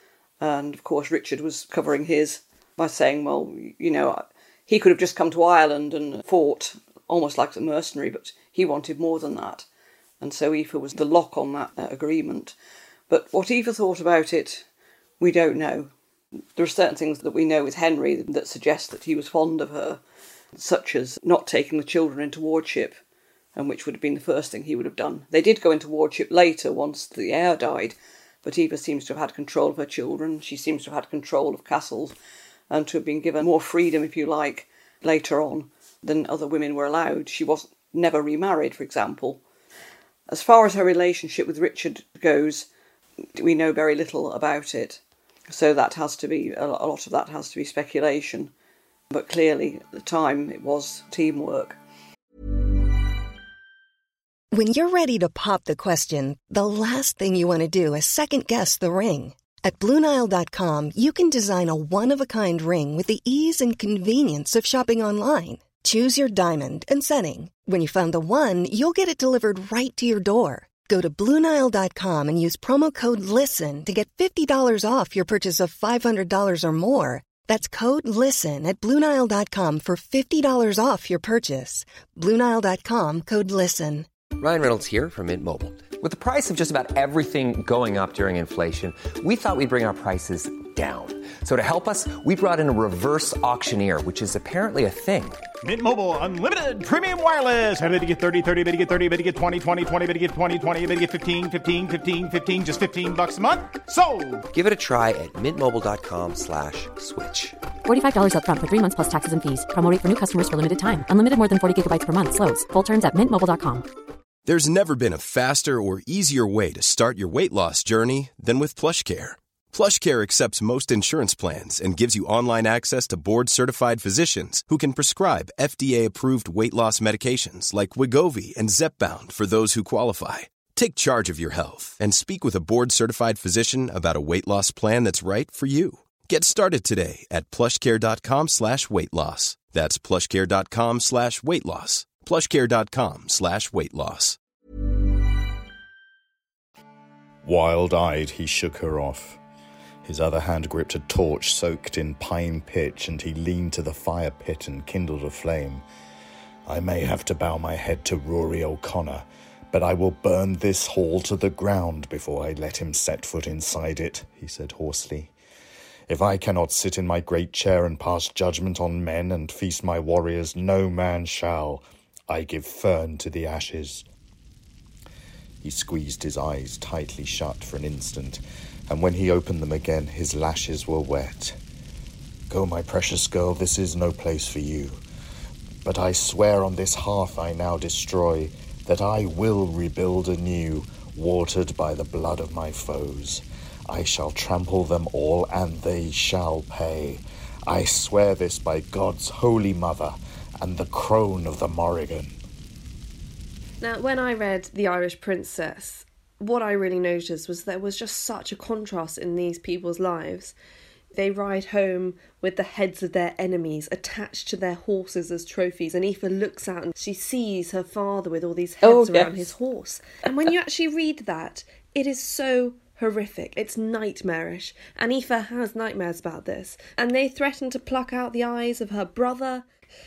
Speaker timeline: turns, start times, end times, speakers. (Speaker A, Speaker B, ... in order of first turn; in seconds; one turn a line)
Speaker A: 0.4-9.7
Speaker A: 10.2-12.6
Speaker A: 13.1-14.7
Speaker A: 15.2-15.9
Speaker A: 16.6-20.0
Speaker A: 20.6-23.0
Speaker A: 23.6-32.2
Speaker A: 32.7-39.4
Speaker A: 40.3-42.7
Speaker A: 43.4-48.5
Speaker A: 49.1-51.8
Speaker B: 54.5-84.1
Speaker C: 84.4-95.4
Speaker D: 95.6-104.4
Speaker C: 104.5-107.6
Speaker E: 107.8-113.9
Speaker F: 114.5-144.4
Speaker G: 147.4-149.4
Speaker G: 150.0-155.8
Speaker G: 156.7-165.3
Speaker G: 166.1-174.1
Speaker G: 175.6-181.6
Speaker G: 182.5-185.0
Speaker G: 185.8-202.4
Speaker H: 203.8-210.6
Speaker H: 211.1-229.7
Speaker A: 218.8-219.5